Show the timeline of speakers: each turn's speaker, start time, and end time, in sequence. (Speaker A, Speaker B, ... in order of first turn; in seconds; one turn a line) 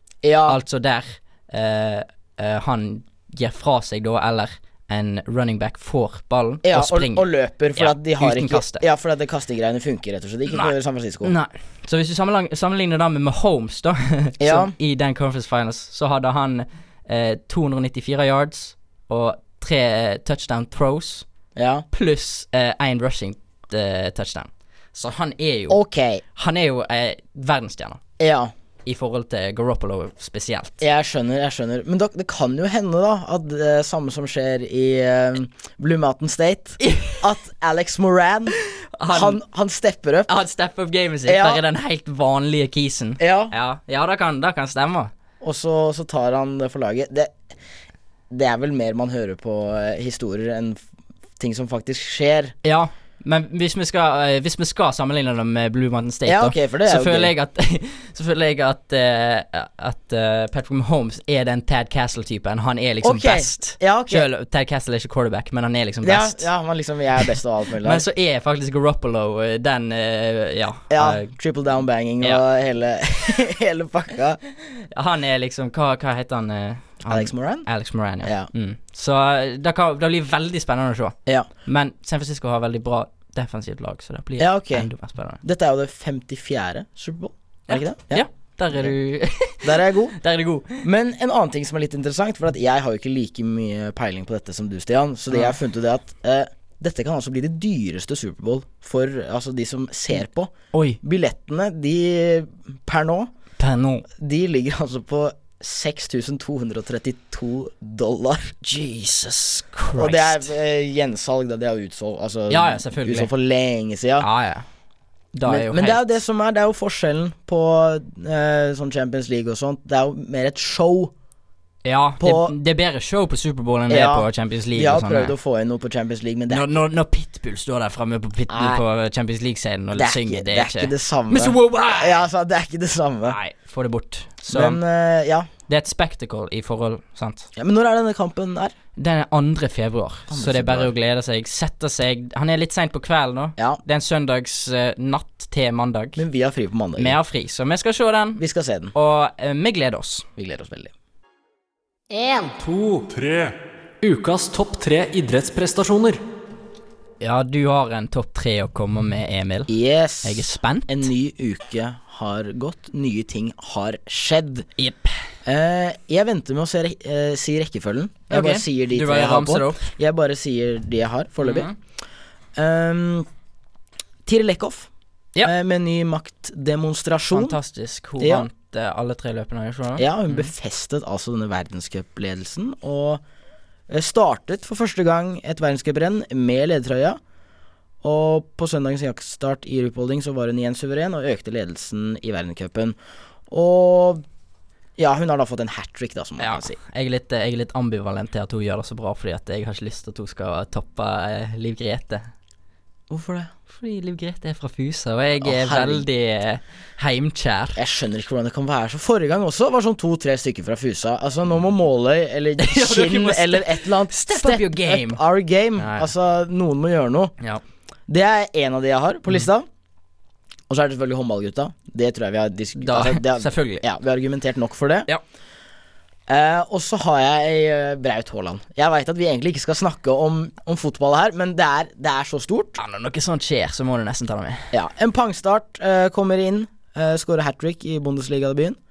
Speaker A: 0.2-0.6
Speaker B: 0.5-8.8
Speaker A: 6.6-11.3
Speaker B: 10.5-21.3
Speaker A: 14.4-14.7
Speaker A: 21.6-21.9
Speaker B: 21.9-25.8
Speaker A: 25.7-26.2
Speaker B: 26.4-28.0
Speaker A: 28.2-28.5
Speaker B: 28.9-30.8
Speaker A: 30.8-38.5
Speaker B: 36.8-37.2
Speaker B: 38.9-39.4
Speaker A: 39.1-40.3
Speaker B: 40.3-45.1
Speaker A: 41.3-41.6
Speaker A: 43.2-43.5
Speaker A: 45.4-47.4
Speaker A: 48.3-50.8
Speaker A: 51.4-52.5
Speaker B: 52.6-66.5
Speaker A: 56.3-57.3
Speaker A: 63.0-64.3
Speaker A: 66.0-68.0
Speaker B: 67.8-71.3
Speaker A: 70.9-74.4
Speaker B: 74.9-85.4
Speaker A: 77.1-77.7
Speaker A: 78.2-78.5
Speaker A: 84.4-84.9
Speaker A: 85.4-88.9
Speaker B: 87.7-90.8
Speaker A: 89.6-90.2
Speaker A: 90.8-103.3
Speaker B: 100.7-101.0
Speaker B: 103.6-104.1
Speaker A: 104.1-108.6
Speaker B: 108.6-110.5
Speaker A: 110.0-114.3
Speaker B: 112.5-113.3
Speaker B: 114.2-114.7
Speaker B: 115.3-116.0
Speaker A: 115.5-121.1
Speaker B: 121.8-125.3
Speaker A: 122.2-122.5
Speaker A: 123.9-126.7
Speaker B: 126.5-132.2
Speaker A: 128.5-128.8
Speaker A: 129.9-133.4
Speaker B: 133.3-134.8
Speaker A: 134.5-135.5
Speaker B: 135.7-137.5
Speaker A: 137.6-138.7
Speaker B: 139.0-146.2
Speaker A: 140.3-140.9
Speaker A: 146.2-147.2
Speaker B: 147.0-148.4
Speaker A: 148.4-148.9
Speaker B: 148.9-150.3
Speaker A: 150.4-150.9
Speaker C: 152.5-156.2
Speaker B: 157.2-159.7
Speaker A: 159.7-164.7
Speaker B: 160.2-161.1
Speaker B: 164.8-165.1
Speaker A: 165.4-171.7
Speaker B: 168.3-169.9
Speaker B: 171.4-171.8
Speaker A: 172.6-173.3
Speaker A: 174.3-174.9
Speaker A: 175.4-177.6
Speaker B: 177.3-180.5
Speaker A: 178.2-178.5
Speaker A: 180.0-183.2
Speaker A: 183.9-187.2
Speaker A: 188.0-193.0
Speaker A: 193.5-194.2
Speaker A: 195.0-196.8
Speaker B: 196.4-202.3
Speaker A: 203.1-203.5
Speaker B: 203.7-207.8
Speaker A: 205.4-206.1
Speaker A: 207.8-217.3
Speaker B: 212.6-215.2
Speaker B: 215.8-216.1
Speaker A: 218.1-219.7
Speaker A: 220.7-225.1
Speaker B: 222.8-223.8
Speaker A: 226.3-232.8
Speaker B: 232.8-234.7
Speaker A: 234.7-238.8